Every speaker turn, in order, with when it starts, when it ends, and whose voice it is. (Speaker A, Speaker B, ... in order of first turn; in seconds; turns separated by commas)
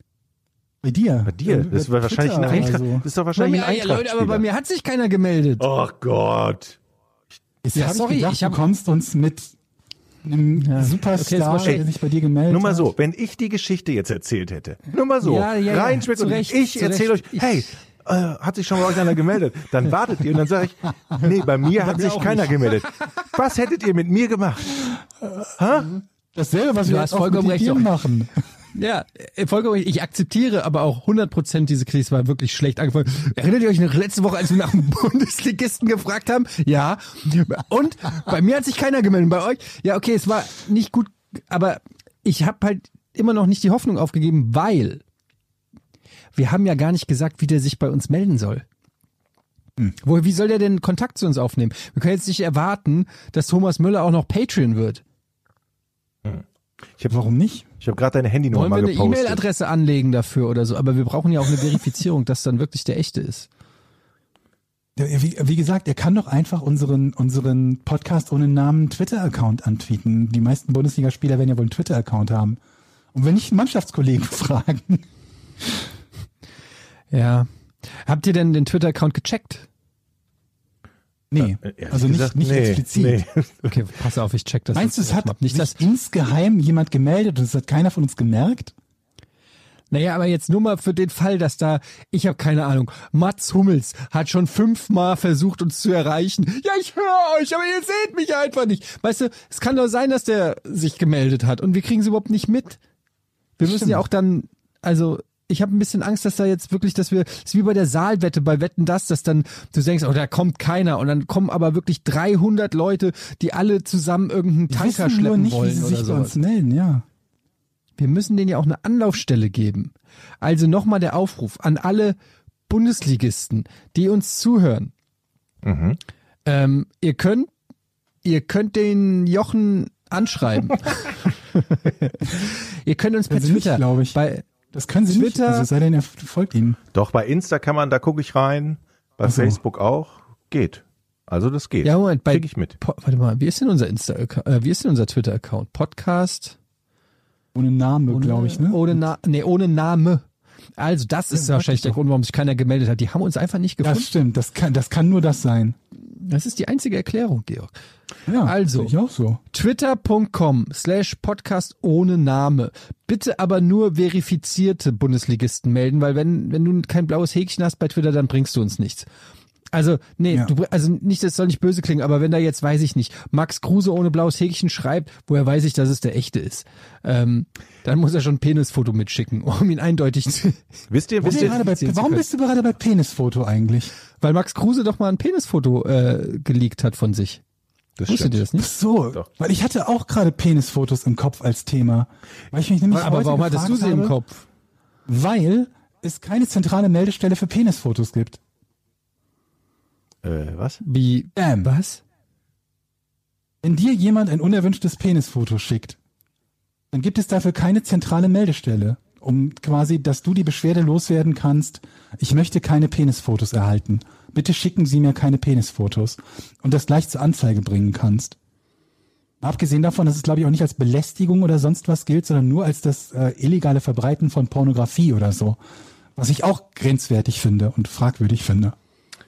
Speaker A: 0.8-3.0, Speaker B: 1.2-4.4, Speaker C: 2.3-2.8, Speaker C: 3.3-5.7, Speaker B: 5.6-6.8, Speaker A: 7.6-9.5, Speaker C: 7.7-8.6, Speaker A: 10.2-12.9, Speaker C: 10.6-11.8, Speaker B: 12.5-25.0, Speaker C: 15.2-17.5, Speaker C: 21.6-23.1, Speaker A: 25.2-25.5, Speaker B: 25.6-25.9, Speaker A: 26.3-28.3, Speaker C: 26.9-27.9, Speaker C: 28.7-45.0, Speaker C: 46.3-48.6, Speaker C: 50.0-55.0, Speaker A: 57.1-57.7, Speaker B: 57.8-59.4, Speaker C: 58.5-63.5, Speaker A: 65.0-72.6, Speaker A: 73.1-75.0, Speaker A: 75.6-75.9, Speaker C: 77.1-79.7, Speaker A: 81.3-83.2, Speaker B: 81.4-83.8, Speaker C: 83.7-85.7, Speaker A: 84.7-88.7, Speaker C: 89.9-102.8, Speaker C: 103.6-116.4, Speaker A: 103.6-104.0, Speaker A: 114.7-117.0, Speaker C: 118.0-122.2, Speaker C: 122.7-124.9, Speaker B: 125.6-126.0, Speaker C: 126.4-127.5, Speaker C: 128.2-134.4, Speaker A: 133.3-134.2, Speaker A: 134.7-136.8, Speaker C: 135.1-135.7, Speaker B: 136.9-142.8, Speaker A: 139.2-139.6, Speaker C: 141.8-146.6, Speaker A: 147.5-149.0, Speaker C: 148.1-150.2, Speaker C: 150.8-154.1, Speaker A: 151.3-152.0, Speaker A: 153.8-155.8, Speaker C: 156.1-157.7, Speaker A: 158.3-159.4, Speaker C: 158.4-158.9, Speaker C: 159.5-169.1, Speaker C: 169.7-180.7, Speaker B: 180.9-181.6, Speaker C: 181.2-182.2, Speaker A: 181.2-183.9, Speaker C: 184.2-187.4, Speaker B: 188.0-188.4, Speaker C: 188.1-188.7, Speaker A: 188.6-194.2, Speaker C: 192.9-194.4, Speaker A: 195.1-198.4, Speaker B: 200.2-200.8, Speaker C: 200.8-202.0, Speaker A: 201.3-201.7, Speaker A: 203.6-206.0, Speaker A: 206.9-218.3, Speaker A: 219.4-225.6, Speaker A: 226.2-228.8